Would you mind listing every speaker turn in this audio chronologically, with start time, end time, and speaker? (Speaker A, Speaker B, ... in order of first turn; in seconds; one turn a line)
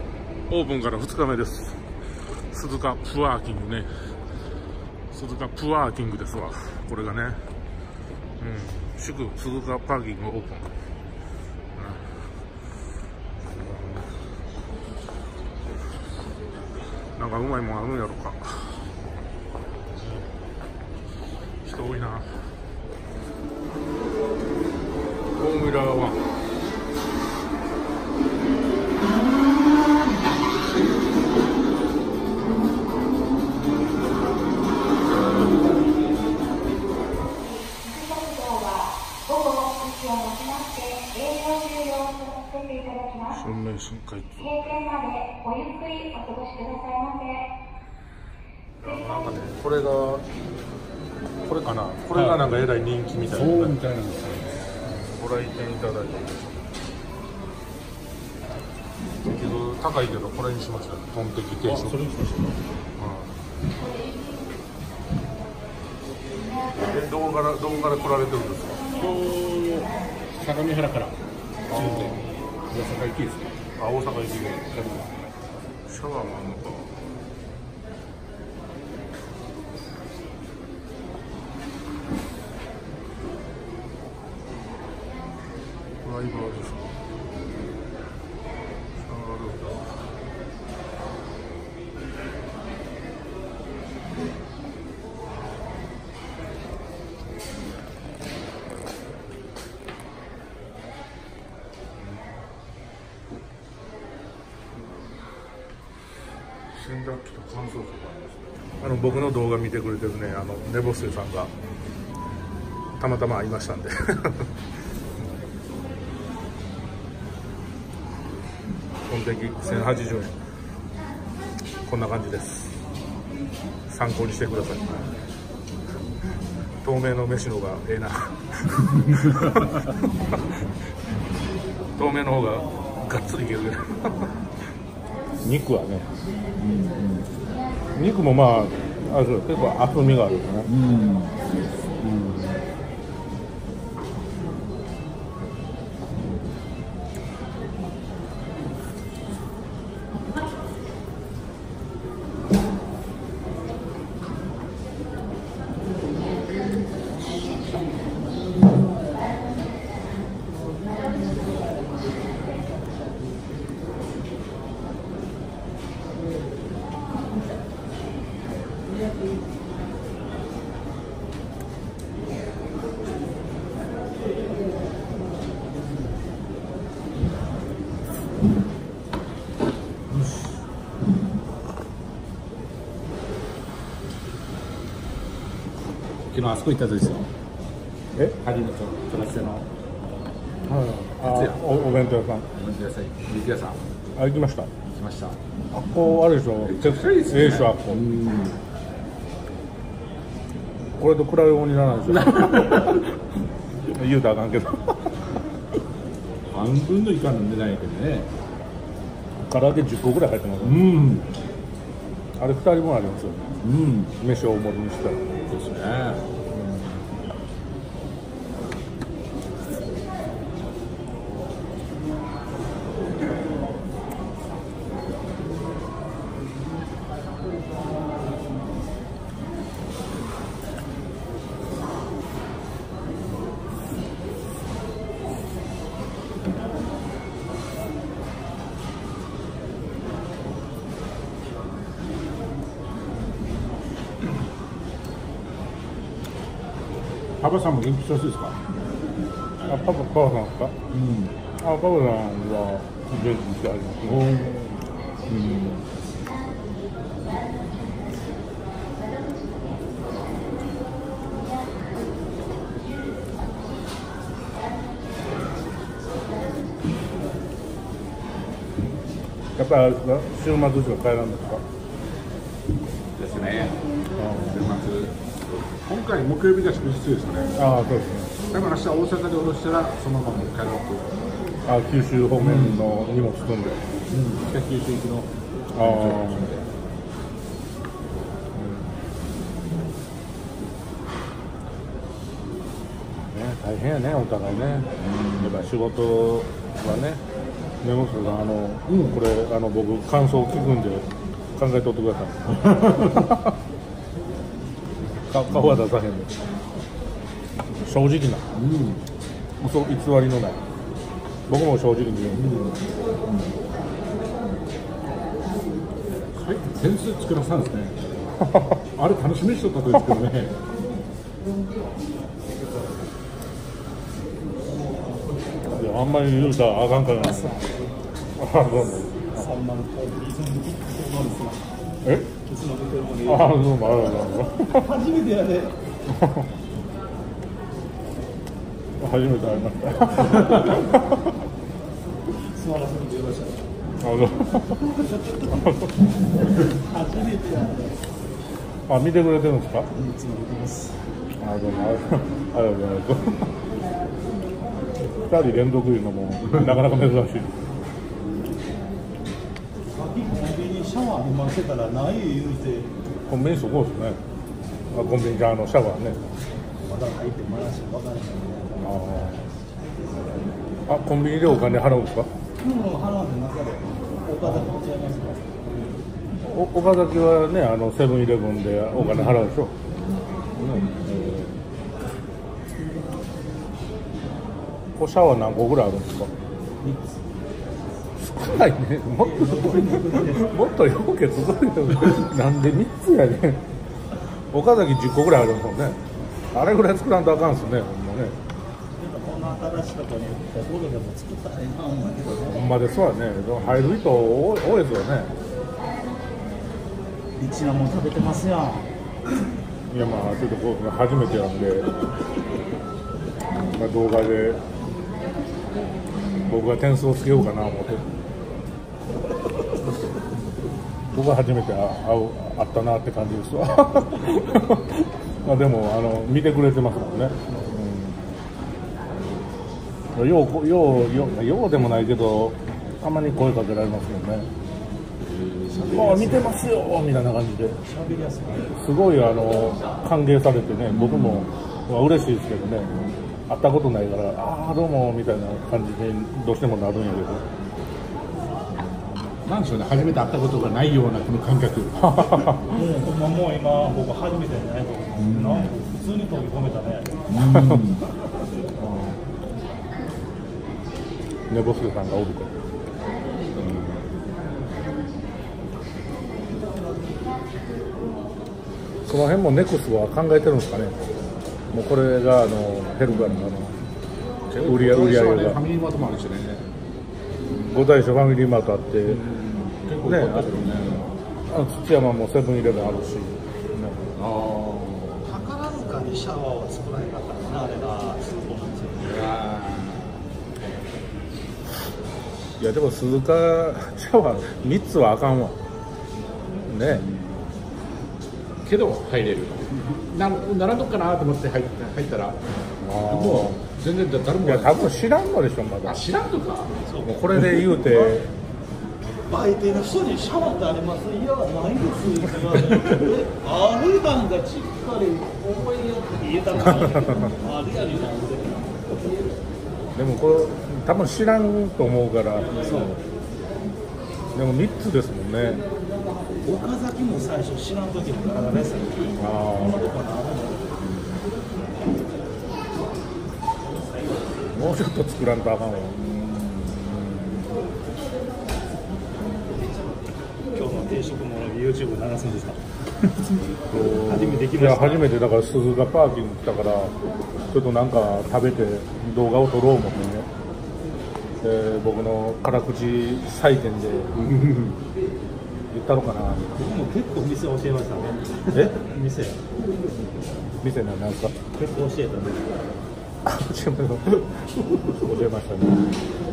Speaker A: 0.5-1.8
Speaker A: 2.5-4.1
Speaker A: 5.1-7.4
Speaker A: 8.4-10.7
Speaker A: 11.8-12.2
Speaker A: 13.4-14.2
Speaker A: 17.1-18.9
Speaker A: 20.0-20.2
Speaker A: 21.6-22.4
Speaker A: 25.3-26.2
Speaker B: 38.0-38.7
Speaker B: 39.4-43.1
Speaker A: 43.2-44.9
Speaker B: 45.0-47.3
Speaker A: 48.8-50.2
Speaker A: 51.4-53.8
Speaker C: 52.1-52.4
Speaker C: 53.3-54.8
Speaker A: 54.8-56.7
Speaker A: 59.2-62.0
Speaker C: 61.7-62.6
Speaker A: 63.0-63.4
Speaker A: 66.8-68.9
Speaker C: 68.9-71.2
Speaker A: 71.7-72.3
Speaker C: 71.7-73.5
Speaker A: 73.8-74.8
Speaker C: 74.7-75.1
Speaker A: 75.8-77.0
Speaker A: 86.0-87.0
Speaker A: 89.0-89.9
Speaker A: 102.0-102.3
Speaker A: 106.7-111.5
Speaker A: 113.0-114.5
Speaker A: 119.1-120.4
Speaker A: 121.8-122.8
Speaker A: 123.9-125.1
Speaker A: 126.8-130.6
Speaker A: 131.9-134.3
Speaker A: 135.4-136.1
Speaker C: 136.6-137.3
Speaker A: 137.9-140.7
Speaker C: 140.7-142.6
Speaker C: 186.3-187.3
Speaker C: 188.4-189.7
Speaker A: 190.7-192.5
Speaker C: 191.2-191.6
Speaker C: 192.5-193.8
Speaker A: 194.1-194.7
Speaker C: 194.9-195.4
Speaker A: 195.7-198.1
Speaker C: 196.6-198.6
Speaker A: 201.0-203.2
Speaker C: 202.2-203.0
Speaker A: 203.8-205.3
Speaker C: 206.5-208.3
Speaker A: 209.5-210.9
Speaker C: 210.6-211.3
Speaker A: 212.4-213.5
Speaker C: 213.6-214.1
Speaker A: 214.1-215.2
Speaker C: 215.5-216.3
Speaker A: 216.5-216.8
Speaker C: 247.4-248.6
Speaker A: 249.6-250.8
Speaker C: 250.9-251.3
Speaker A: 251.6-254.8
Speaker C: 255.3-255.8
Speaker A: 269.6-271.6
Speaker C: 273.1-273.9
Speaker A: 274.1-274.6
Speaker C: 274.4-275.2
Speaker C: 275.8-277.6
Speaker A: 277.5-278.4
Speaker C: 278.5-281.1
Speaker A: 281.6-283.9
Speaker C: 282.4-282.8
Speaker C: 284.1-286.7
Speaker A: 285.7-286.5
Speaker A: 288.5-289.0
Speaker A: 293.1-297.2
Speaker C: 295.0-295.6
Speaker A: 297.8-303.5
Speaker C: 298.9-299.2
Speaker A: 305.1-306.3
Speaker A: 307.8-308.5
Speaker C: 308.5-309.0
Speaker A: 309.6-310.6
Speaker A: 311.5-312.6
Speaker C: 312.3-313.5
Speaker C: 316.3-318.0
Speaker A: 318.4-318.8
Speaker C: 318.9-320.6
Speaker A: 325.7-327.6
Speaker D: 327.2-327.7
Speaker A: 328.3-329.5
Speaker D: 329.3-331.7
Speaker A: 332.0-332.3
Speaker D: 332.3-335.8
Speaker A: 333.2-334.9
Speaker A: 336.1-336.5
Speaker A: 339.0-341.3
Speaker D: 342.4-343.7
Speaker A: 344.0-345.0
Speaker D: 344.9-345.6
Speaker A: 345.6-346.0
Speaker D: 346.7-348.0
Speaker A: 348.9-349.9
Speaker D: 349.9-351.0
Speaker A: 351.4-353.5
Speaker A: 355.1-357.6
Speaker D: 359.9-362.9
Speaker A: 363.2-364.2
Speaker A: 364.9-366.2
Speaker D: 366.9-368.9
Speaker A: 368.8-369.5
Speaker A: 370.9-372.3
Speaker D: 372.6-375.5
Speaker A: 376.4-379.8
Speaker A: 380.6-381.6
Speaker A: 384.9-386.3
Speaker D: 386.8-387.2
Speaker A: 388.2-393.7
Speaker D: 389.2-390.6
Speaker A: 394.3-398.4
Speaker D: 398.9-402.6
Speaker A: 402.4-405.3
Speaker D: 407.3-408.9
Speaker A: 409.9-412.0
Speaker A: 413.6-414.6
Speaker A: 416.4-418.1
Speaker A: 421.1-428.3
Speaker A: 430.1-434.5
Speaker C: 435.4-435.8
Speaker D: 435.7-436.5
Speaker A: 435.8-437.8
Speaker D: 437.8-438.7
Speaker A: 438.6-442.9
Speaker C: 440.9-441.4
Speaker A: 443.5-447.4
Speaker C: 449.2-452.5
Speaker A: 451.9-452.8
Speaker D: 452.7-457.3
Speaker C: 455.1-455.7
Speaker C: 457.3-458.1
Speaker A: 457.4-457.9
Speaker A: 458.8-459.2
Speaker A: 461.5-462.6
Speaker A: 463.6-464.0
Speaker A: 469.0-471.1
Speaker A: 471.7-473.8
Speaker C: 474.5-476.7
Speaker A: 474.6-475.6
Speaker A: 477.5-479.2
Speaker C: 479.0-481.2
Speaker A: 480.0-480.6
Speaker A: 481.5-484.1
Speaker C: 484.1-485.3
Speaker D: 485.2-489.1
Speaker C: 489.0-490.2
Speaker A: 492.6-495.6
Speaker A: 496.6-497.1
Speaker C: 496.9-497.5
Speaker C: 498.6-505.0
Speaker A: 502.8-503.7
Speaker A: 504.4-506.2
Speaker C: 505.8-506.8
Speaker D: 506.9-507.6
Speaker A: 507.0-508.3
Speaker D: 509.3-518.9
Speaker A: 516.7-517.3
Speaker A: 519.9-522.9
Speaker D: 522.5-522.9
Speaker A: 524.3-525.6
Speaker D: 526.4-530.8
Speaker A: 529.2-529.9
Speaker A: 534.5-536.0
Speaker C: 536.2-536.6
Speaker D: 539.5-545.1
Speaker A: 543.7-546.9
Speaker A: 547.5-550.3
Speaker A: 551.4-554.8
Speaker A: 555.7-556.6
Speaker D: 556.6-559.4
Speaker A: 558.5-558.8
Speaker A: 560.6-561.4
Speaker D: 561.5-562.6
Speaker A: 563.2-565.9